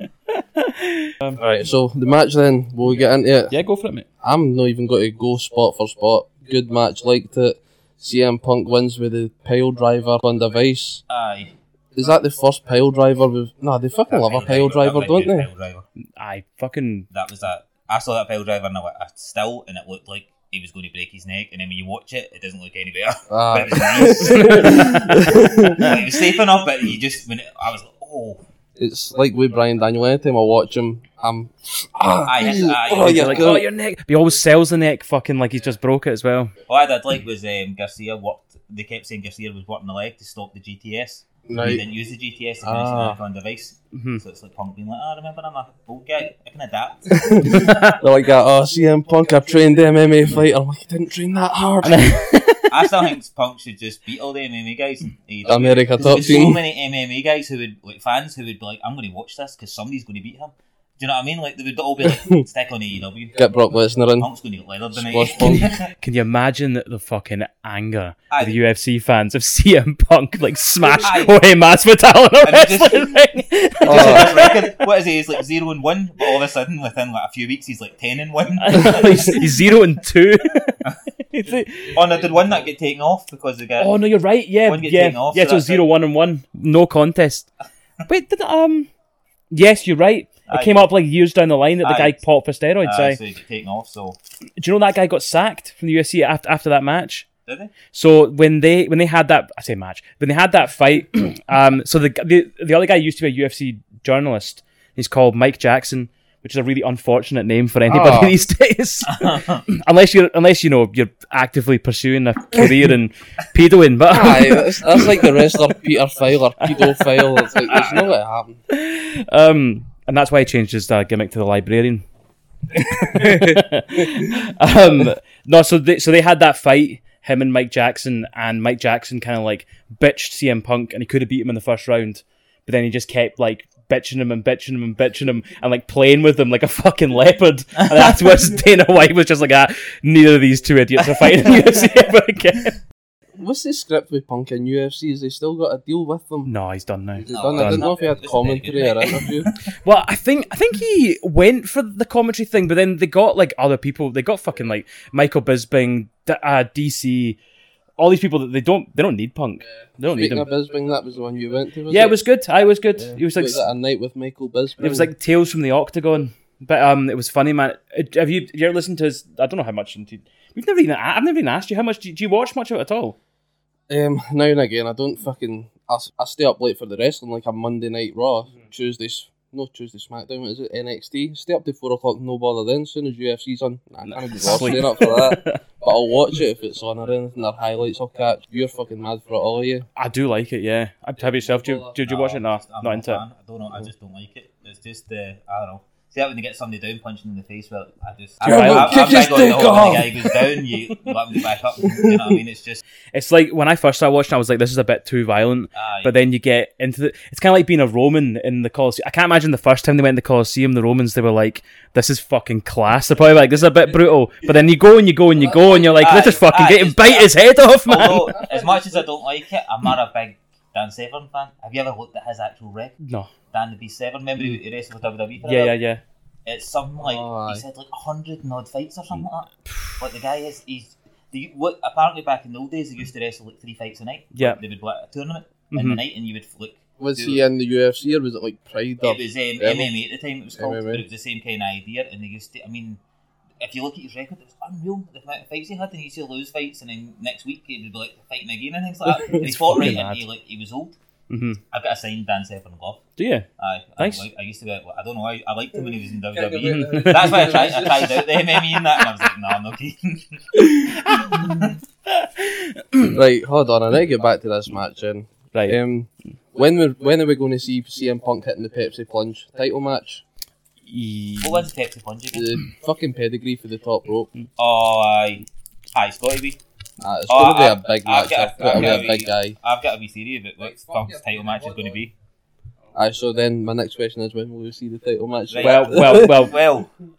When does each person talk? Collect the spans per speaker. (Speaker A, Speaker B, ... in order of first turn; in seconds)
Speaker A: 0.3-1.4, 3.5-4.1, 16.2-17.1, 24.4-25.1, 33.0-36.5, 43.9-44.2, 47.4-48.0, 51.8-52.9, 66.0-74.8, 78.6-82.0, 83.8-87.5, 88.1-88.9, 89.5-93.2, 94.6-97.3, 97.9-115.3, 116.7-117.0, 117.7-118.1, 118.7-122.1, 122.8-142.8, 146.4-147.9, 149.8-157.4, 158.0-160.5, 161.9-163.6, 164.8-173.2, 184.2-185.6, 190.0-193.2, 198.4-199.2, 203.1-218.3, 223.0-223.3, 225.4-226.0, 235.7-236.0, 249.4-250.2, 251.3-251.6, 253.2-253.5, 254.0-254.3, 256.7-257.6, 261.1-261.4, 262.1-263.2, 265.5-265.8, 270.9-271.7, 285.6-286.6
Speaker B: 1.4-3.5, 4.2-11.0, 11.9-15.5, 23.3-26.0, 28.8-33.7, 41.5-41.8, 42.6-43.2, 47.1-52.3, 55.5-56.6, 62.1-62.4, 63.4-64.3, 64.9-65.7, 73.8-74.3, 107.9-108.4, 114.1-118.6, 122.8-124.2, 143.4-146.5, 147.2-149.5, 160.1-162.2, 163.0-165.1, 173.9-189.9, 191.6-191.9, 198.4-200.5, 201.8-202.4, 215.4-216.0, 218.1-219.1, 227.0-227.7, 237.0-239.9, 240.6-241.1, 249.1-249.4, 256.3-258.2, 263.1-270.2, 272.3-274.3, 277.0-279.6, 282.9-286.5
Speaker C: 11.1-11.5, 14.1-15.9, 17.1-28.4, 32.3-33.5, 36.7-47.4, 52.7-63.5, 64.2-65.9, 68.3-68.6, 71.0-71.4, 72.4-73.2, 73.8-79.6, 81.9-84.0, 84.7-85.8, 90.5-90.9, 91.8-92.2, 92.8-94.2, 97.5-97.7, 109.1-109.6, 137.8-138.1, 147.3-149.6, 192.0-202.8, 205.7-206.1, 215.9-223.0, 223.5-225.7, 226.4-237.4, 239.0-243.0, 243.6-251.0, 251.7-253.0, 253.6-261.7, 271.4-272.5, 274.6-276.6, 277.3-282.1, 285.5-286.9